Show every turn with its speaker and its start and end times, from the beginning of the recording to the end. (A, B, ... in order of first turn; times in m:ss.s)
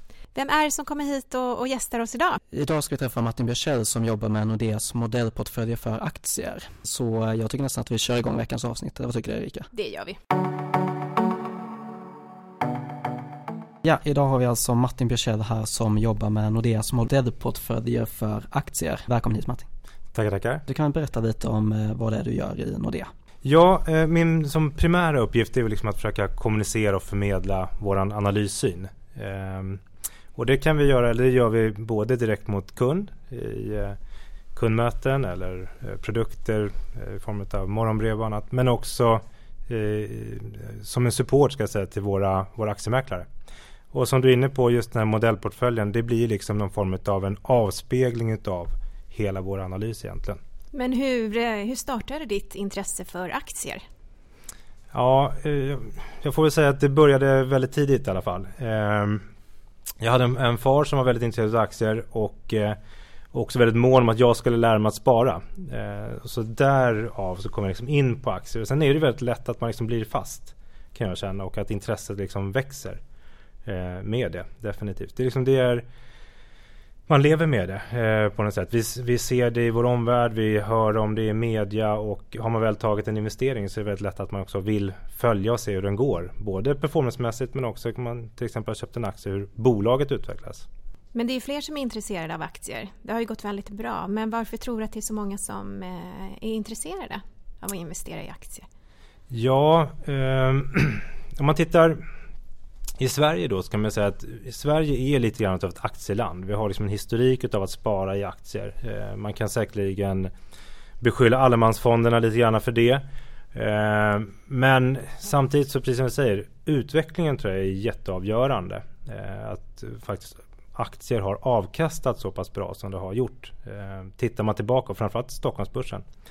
0:00.3-0:02.4 A
0:02.5-0:09.7 B
0:09.7-0:10.2 A
0:13.8-0:19.7 B
0:20.1-0:20.6 C
0:20.7-0:23.1 B
0:23.4-0:29.8 C
0:30.4-0:34.0 C
0:34.5-0:43.3 C
0:43.9-0:50.4 C
0:50.7-0:53.8 A
0:54.9-0:59.2 C
1:00.0-1:02.8 C
1:03.3-1:13.0 C
1:13.6-1:15.8 C
1:17.1-1:30.7 C
1:31.1-1:38.7 A
1:39.3-1:42.0 C
1:43.0-1:50.3 C
1:51.0-2:06.0 C